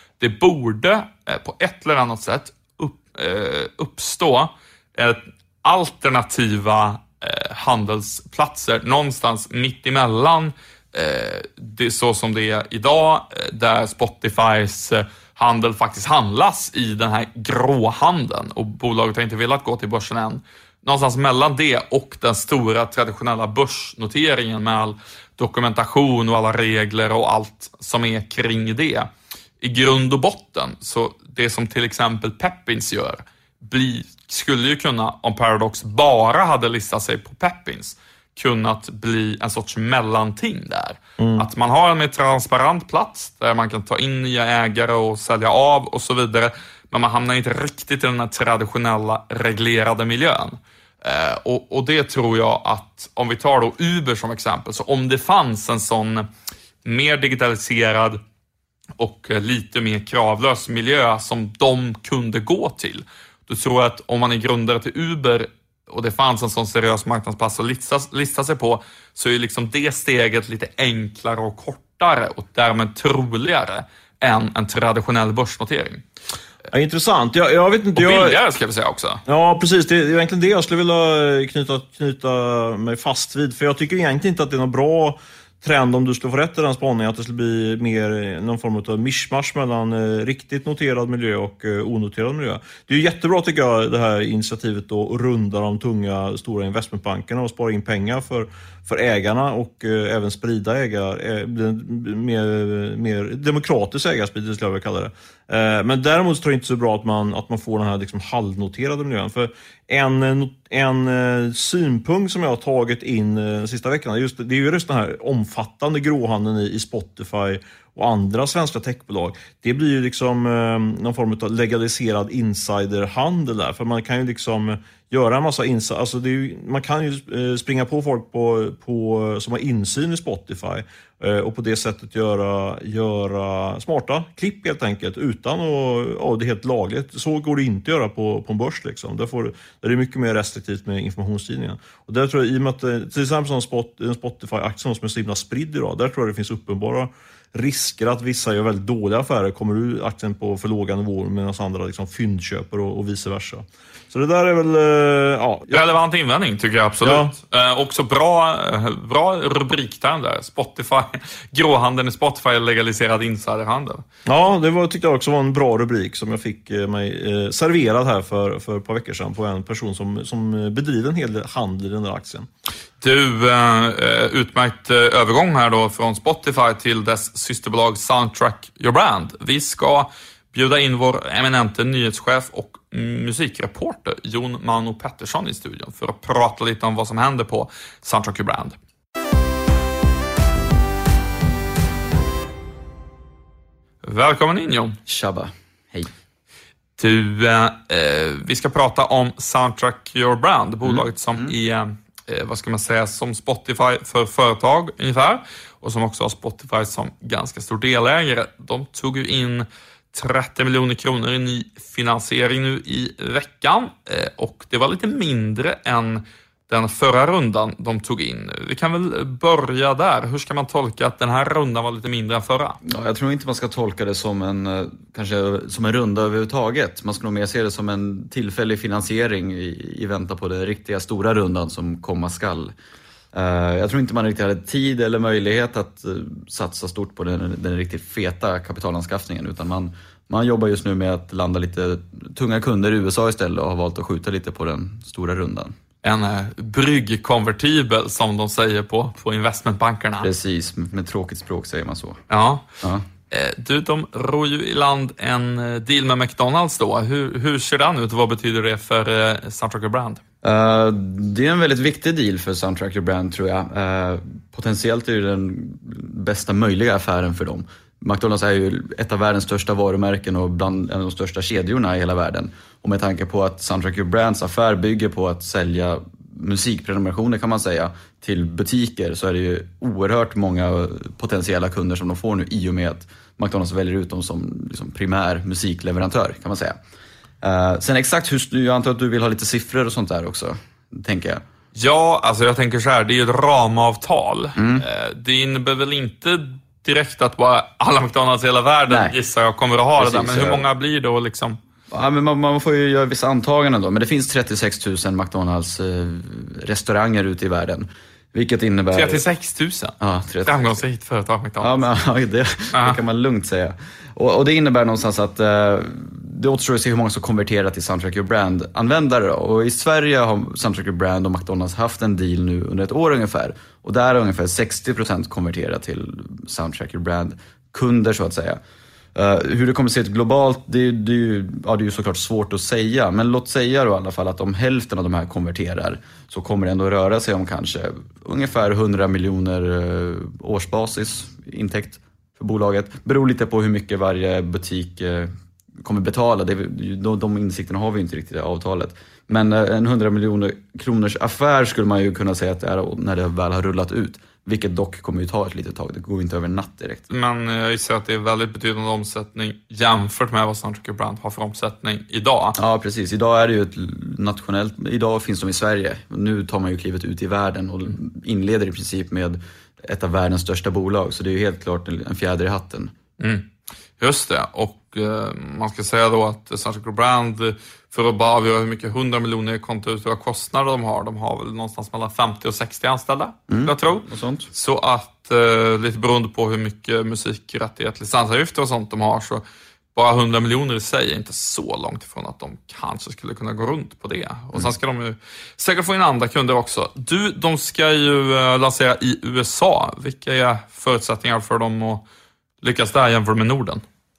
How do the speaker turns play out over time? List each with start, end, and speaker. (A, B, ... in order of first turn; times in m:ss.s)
0:00.2-0:29.1 A
0:29.6-0:56.3 A
0:41.2-0:41.4 B
0:56.8-0:58.2 A
0:59.0-1:16.0 A
1:16.7-1:18.4 B
1:17.9-1:19.2 A
1:19.3-2:35.7 B
2:35.7-2:44.0 A
2:37.0-2:37.3 B
2:44.2-2:52.5 B
2:53.0-3:08.8 A
3:14.0-3:15.0 A
3:15.1-3:16.1 C
3:17.0-3:42.8 A
3:20.9-3:21.5 C
3:42.8-3:52.7 C
3:53.3-4:05.8 C
4:06.0-4:10.3 A
4:10.2-4:12.2 C
4:12.3-4:12.6 A
4:13.3-4:20.2 A
4:20.4-4:46.8 C
4:47.4-4:51.4 C
4:51.7-5:01.6 A
4:54.6-4:54.8 C
4:58.9-4:59.2 C
5:00.0-5:00.6 C
5:01.9-5:09.2 C
5:08.9-5:11.8 A
5:10.0-5:10.8 C
5:11.6-5:28.6 C
5:12.7-5:13.0 A
5:29.1-5:57.0 C
5:57.1-6:02.6 A
6:02.6-6:12.9 C
6:13.2-6:29.4 A
6:23.5-6:24.5 C
6:29.9-6:42.0 A
6:42.6-6:43.8 A